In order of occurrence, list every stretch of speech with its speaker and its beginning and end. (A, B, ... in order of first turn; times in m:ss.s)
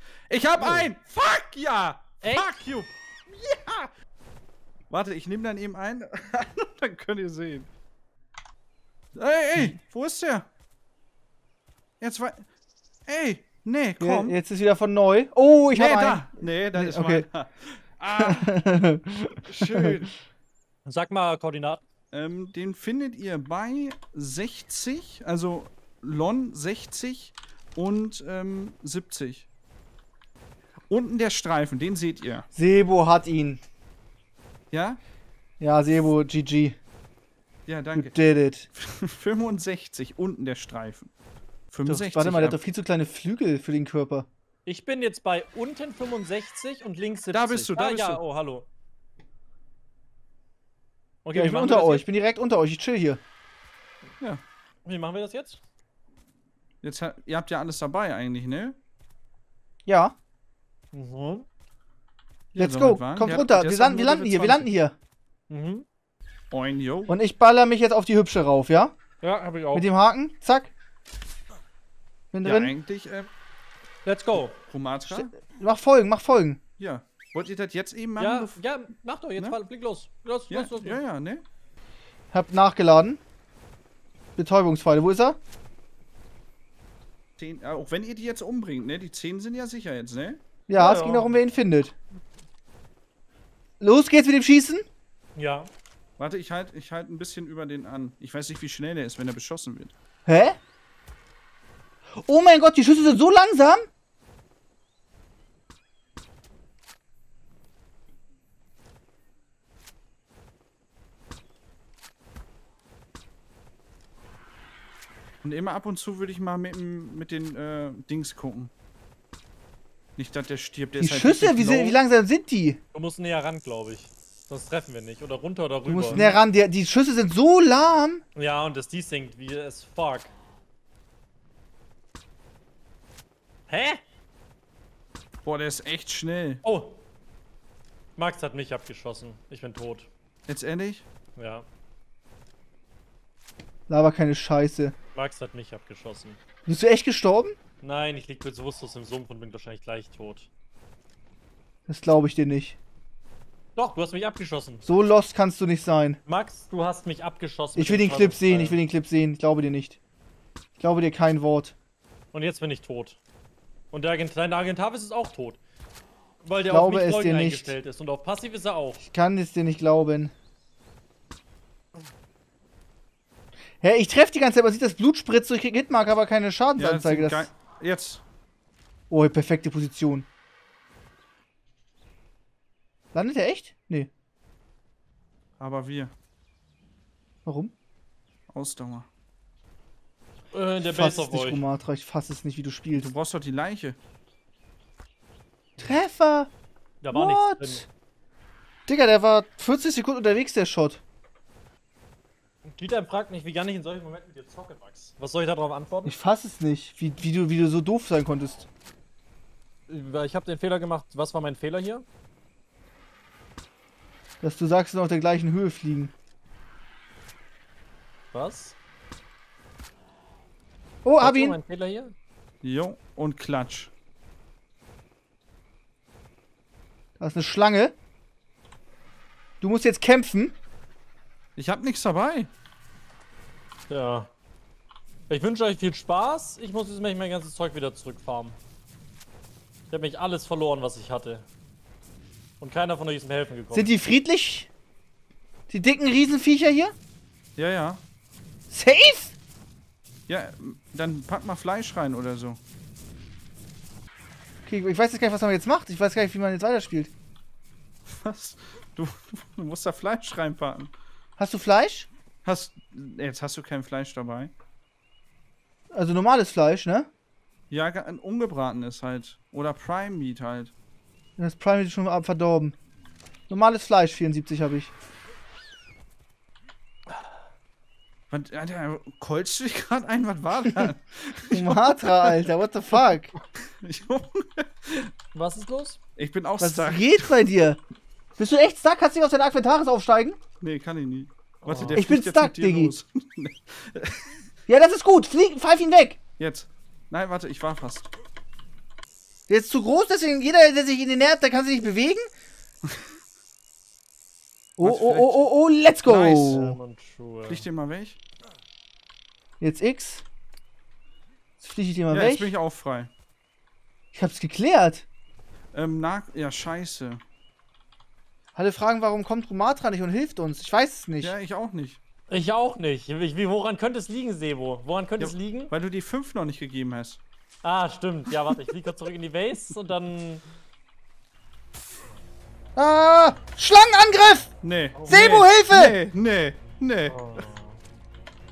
0:00.3-0:03.9 A
0:02.2-0:02.5 B
0:04.9-0:07.7 A
0:09.1-0:10.5 A
0:12.0-0:12.5 A
0:13.1-0:14.4 A
0:14.0-0:17.2 C
0:15.7-0:18.6 A
0:18.2-0:20.0 C
0:19.5-0:20.1 A
0:20.8-0:21.8 B
0:22.1-0:29.5 A
0:30.9-0:32.5 A
0:32.5-0:33.6 C
0:34.7-0:35.0 A
0:35.6-0:36.8 C
0:37.6-0:38.1 A
0:37.9-0:38.7 C
0:38.7-0:41.1 A
0:41.7-0:42.6 A
0:41.8-0:44.3 C
0:44.6-0:48.6 B
0:47.3-0:48.2 A
0:51.2-0:52.0 B
0:51.3-0:53.2 C
0:54.8-0:55.6 B
0:56.8-0:58.8 A
0:59.8-1:00.1 C
1:00.9-1:01.4 B
1:02.5-1:04.7 A
1:02.6-1:04.9 C
1:05.5-1:05.8 B
1:06.5-1:07.1 A
1:07.1-1:08.9 C
1:09.2-1:09.9 B
1:09.7-1:10.7 C
1:12.3-1:12.7 C
1:12.4-1:13.3 A
1:14.0-1:14.6 B
1:14.3-1:15.3 A
1:15.1-1:16.6 C
1:16.8-1:18.6 A
1:18.2-1:21.0 B
1:20.5-1:21.4 A
1:22.3-1:23.2 C
1:24.4-1:25.4 C
1:27.4-1:30.4 A
1:30.7-1:31.9 C
1:30.7-1:31.4 B
1:33.8-1:34.8 C
1:35.4-1:35.7 B
1:36.2-1:39.9 A
1:40.2-1:40.6 C
1:42.2-1:43.8 C
1:55.4-1:58.7 A
2:00.2-2:02.0 A
2:01.0-2:02.8 C
2:02.9-2:06.2 B
2:05.9-2:08.2 C
2:06.0-2:06.4 A
2:08.4-2:10.3 B
2:13.7-2:14.0 B
2:15.4-2:16.6 A
2:16.6-2:17.0 B
2:18.2-2:20.1 B
2:20.5-2:21.0 A
2:21.4-2:21.7 B
2:23.9-2:24.9 C
2:25.1-2:26.4 B
2:26.6-2:27.6 C
2:27.8-2:30.5 B
2:31.9-2:32.8 C
2:33.8-2:34.8 B
2:34.8-2:36.2 C
2:36.2-2:38.8 B
2:37.7-2:40.0 C
2:40.8-2:41.7 C
2:42.3-2:43.2 B
2:43.9-2:45.6 B
2:46.4-2:49.1 B
2:46.7-2:47.7 C
2:49.1-2:50.3 C
2:53.8-2:57.5 C
2:56.8-2:58.2 A
2:59.1-3:00.3 C
3:03.1-3:04.1 C
3:05.6-3:06.1 A
3:07.4-3:07.7 C
3:08.5-3:09.1 A
3:10.5-3:11.6 B
3:10.8-3:13.1 C
3:12.9-3:14.0 A
3:15.8-3:16.5 C
3:17.0-3:17.8 B
3:17.1-3:17.8 C
3:18.9-3:21.0 C
3:22.6-3:26.1 B
3:26.0-3:28.7 C
3:29.9-3:32.0 B
3:34.4-3:36.1 C
3:38.3-3:38.8 B
3:41.0-3:41.6 C
3:41.2-3:42.1 B
3:42.6-3:43.9 A
3:47.2-3:47.9 C
3:49.6-3:50.5 C
3:51.6-3:52.5 A
3:53.9-3:54.3 B
3:55.3-3:58.6 B
3:59.9-4:01.4 B
4:02.6-4:03.9 B
4:03.7-4:04.7 C
4:05.7-4:06.9 C
4:07.6-4:08.0 A
4:08.7-4:09.3 C
4:10.3-4:12.6 A
4:14.6-4:17.1 C
4:18.0-4:20.9 A
4:21.4-4:22.1 C
4:22.4-4:24.5 A
4:25.9-4:27.1 C
4:27.7-4:30.7 A
4:31.4-4:32.7 C
4:33.5-4:34.9 C
4:38.3-4:42.5 A
4:41.5-4:43.3 C
4:43.6-4:45.1 A
4:45.3-4:46.0 B
4:46.2-4:47.3 A
4:46.6-4:47.8 C
4:48.4-4:50.4 C
4:50.6-4:54.4 A
4:51.7-4:52.0 B
4:51.9-4:52.9 C
4:54.7-4:56.2 C
4:56.4-4:58.1 A
4:59.5-5:02.3 C
5:04.8-5:06.8 C
5:04.8-5:05.4 A
5:06.0-5:06.7 A
5:06.4-5:07.6 B
5:07.5-5:08.2 A
5:09.6-5:10.2 C
5:11.6-5:12.5 C
5:12.1-5:13.1 A
5:14.1-5:15.0 C
5:15.7-5:17.2 A
5:18.6-5:21.3 C
5:21.2-5:22.0 A
5:22.3-5:25.7 B
5:25.2-5:27.2 A
5:27.6-5:30.4 B
5:32.8-5:34.5 C
5:34.6-5:37.5 A
5:34.9-5:35.4 B
5:35.1-5:36.0 C
5:37.1-5:37.8 B